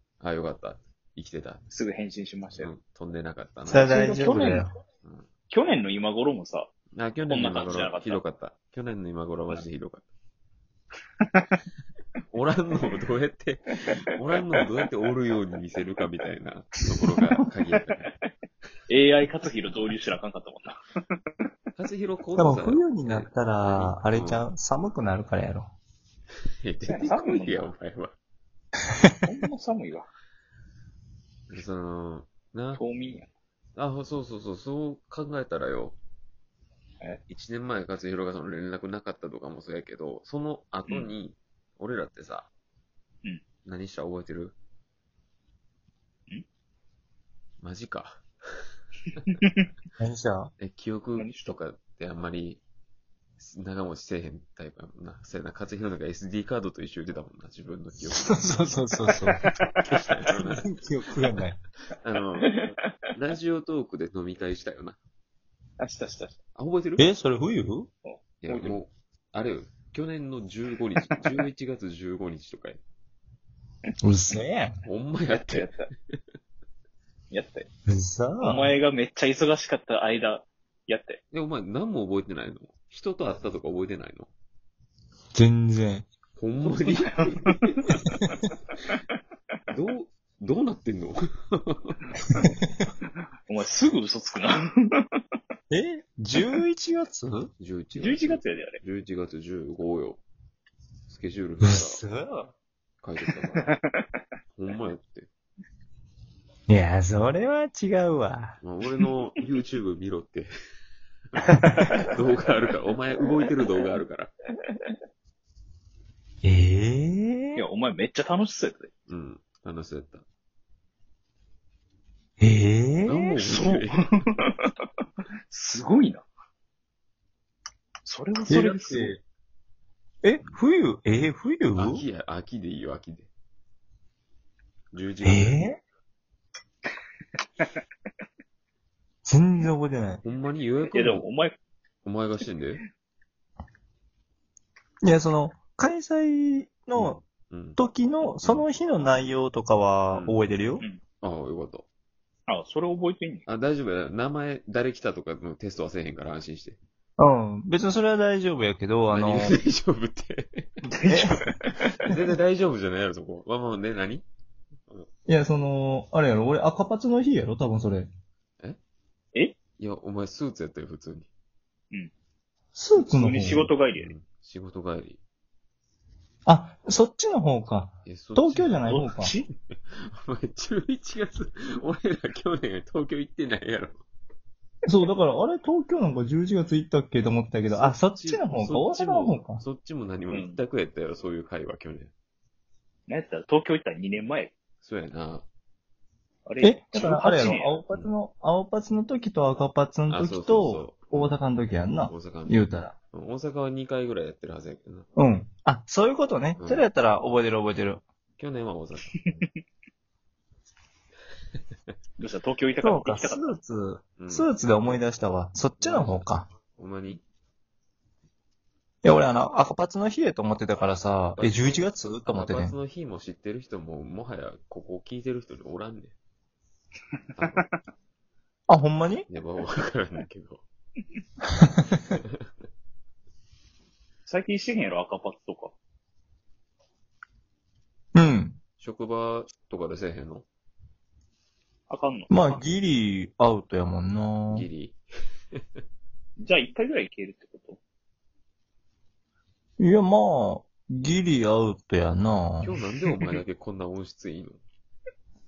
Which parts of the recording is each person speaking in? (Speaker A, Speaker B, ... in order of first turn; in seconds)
Speaker A: 0.2-1.6, 2.5-3.9, 5.0-5.3, 6.9-10.0, 12.3-18.1, 21.8-24.4, 26.6-28.1, 31.5-32.8, 33.8-36.0, 37.3-42.5, 43.6-44.5, 47.6-48.2, 50.6-52.6, 53.4-58.9, 59.8-60.7, 62.0-65.0, 66.5-67.1, 68.4-72.8, 74.8-76.2, 81.3-84.3, 86.3-87.8, 89.7-92.0, 97.3-100.2, 101.1-102.0, 103.0-103.7, 104.5-105.3, 108.6-110.5, 111.8-114.3, 119.1-120.2, 123.0-124.3, 131.7-133.3, 134.9-135.6, 140.2-141.2, 142.0-142.8, 146.9-147.8, 148.4-148.7, 150.1-150.4, 151.2-151.8, 153.4-156.8, 159.1-160.7, 162.0-164.2, 169.8-171.3, 173.9-175.2, 178.0-178.8, 179.7-184.0, 187.7-192.1, 194.8-195.4, 200.1-201.4, 202.1-205.1, 206.6-206.9, 208.4-209.4, 214.2-214.9, 215.8-217.2, 221.3-226.1, 227.3-227.7, 229.3-230.6, 238.8-240.4, 244.5-245.0, 252.6-254.6
Speaker B: 1.7-2.7, 3.7-4.7, 5.5-6.7, 7.2-8.2, 18.9-20.8, 26.8-27.7, 29.2-30.1, 32.8-33.3, 51.2-51.5, 62.4-62.8, 65.8-66.4, 68.0-68.8, 75.3-75.9, 77.3-77.7, 78.4-81.2, 86.6-87.6, 93.5-95.0, 97.9-98.8, 111.8-112.1, 117.5-118.9, 123.4-124.7, 125.5-126.2, 128.1-129.1, 140.9-141.6, 152.5-153.4, 161.1-161.8, 173.0-174.1, 178.8-179.5, 190.3-190.6, 193.1-194.5, 196.4-197.7, 212.2-213.4, 234.2-235.7, 241.9-242.8, 246.4-247.8
Speaker C: 3.7-4.7, 22.4-25.7, 50.0-50.5, 58.2-59.4, 60.3-61.6, 67.0-67.9, 74.0-74.8, 77.9-78.7, 85.3-86.0, 92.4-92.8, 95.7-97.3, 101.6-102.5, 106.7-108.6, 111.6-111.9, 116.4-117.6, 122.4-123.4, 128.5-129.2, 130.2-132.0, 135.2-135.8, 139.2-140.2, 145.0-147.2, 147.8-150.8, 157.2-159.6, 160.9-161.4, 165.3-168.1, 172.7-173.7, 176.4-179.3, 184.9-189.6, 196.6-202.9, 205.1-208.0, 212.8-216.5, 219.0-222.7, 228.7-229.3, 238.1-238.6, 242.3-244.7, 249.8-252.7